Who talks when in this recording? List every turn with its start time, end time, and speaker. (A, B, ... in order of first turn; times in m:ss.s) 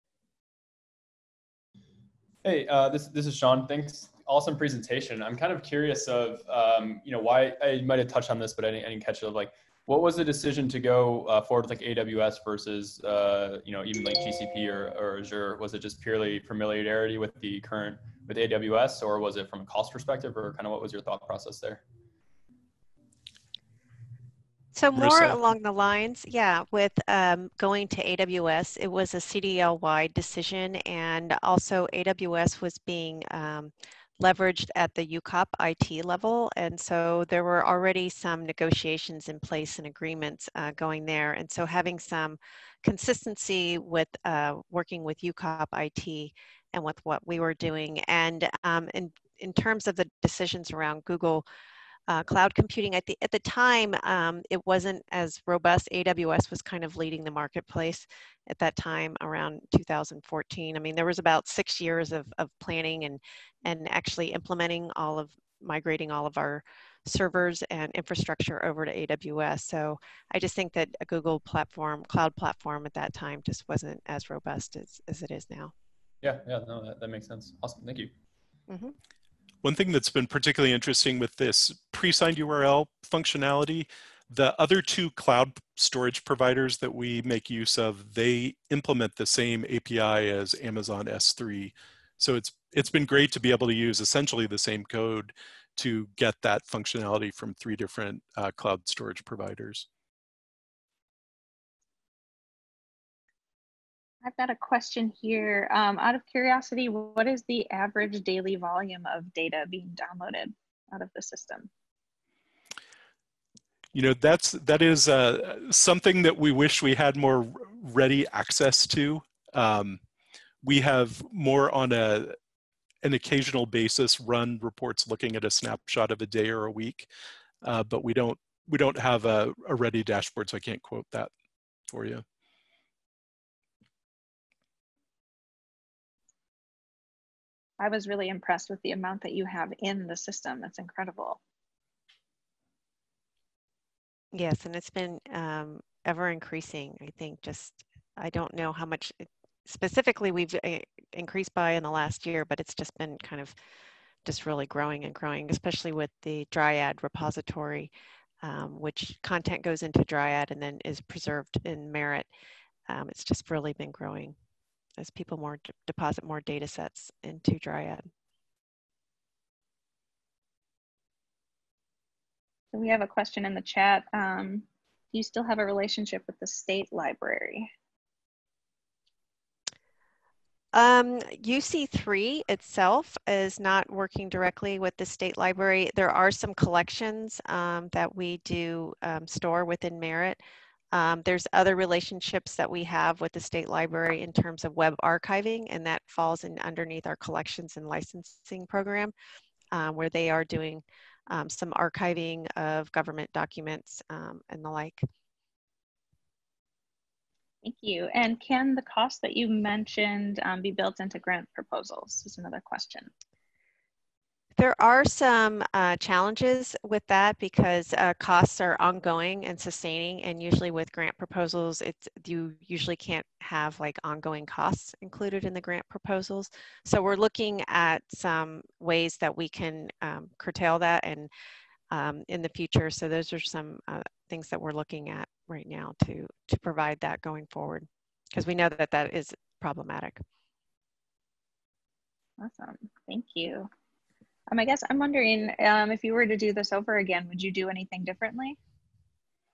0:02.4-0:21.8 A
0:24.7-0:51.4 B
0:24.9-0:25.4 C
0:52.1-1:15.7 B
1:16.2-1:18.1 A
1:18.7-1:18.9 B
1:19.6-1:39.9 C
1:44.2-1:51.7 D
1:53.9-2:00.0 C
2:00.6-2:02.3 C
2:03.0-2:07.1 C
2:07.6-2:11.3 C
2:11.9-2:12.2 C
2:17.8-2:21.4 D
2:24.3-2:33.5 B
2:34.2-2:42.3 B
2:42.9-2:44.3 B
2:45.0-2:48.1 B
2:52.7-2:57.7 D
3:00.7-3:10.4 B
3:10.9-3:19.1 B
3:19.7-3:25.0 B
3:27.6-3:33.1 D
3:34.6-3:51.3 B
3:51.9-4:00.2 B
4:02.4-4:03.7 D
4:04.5-4:08.6 D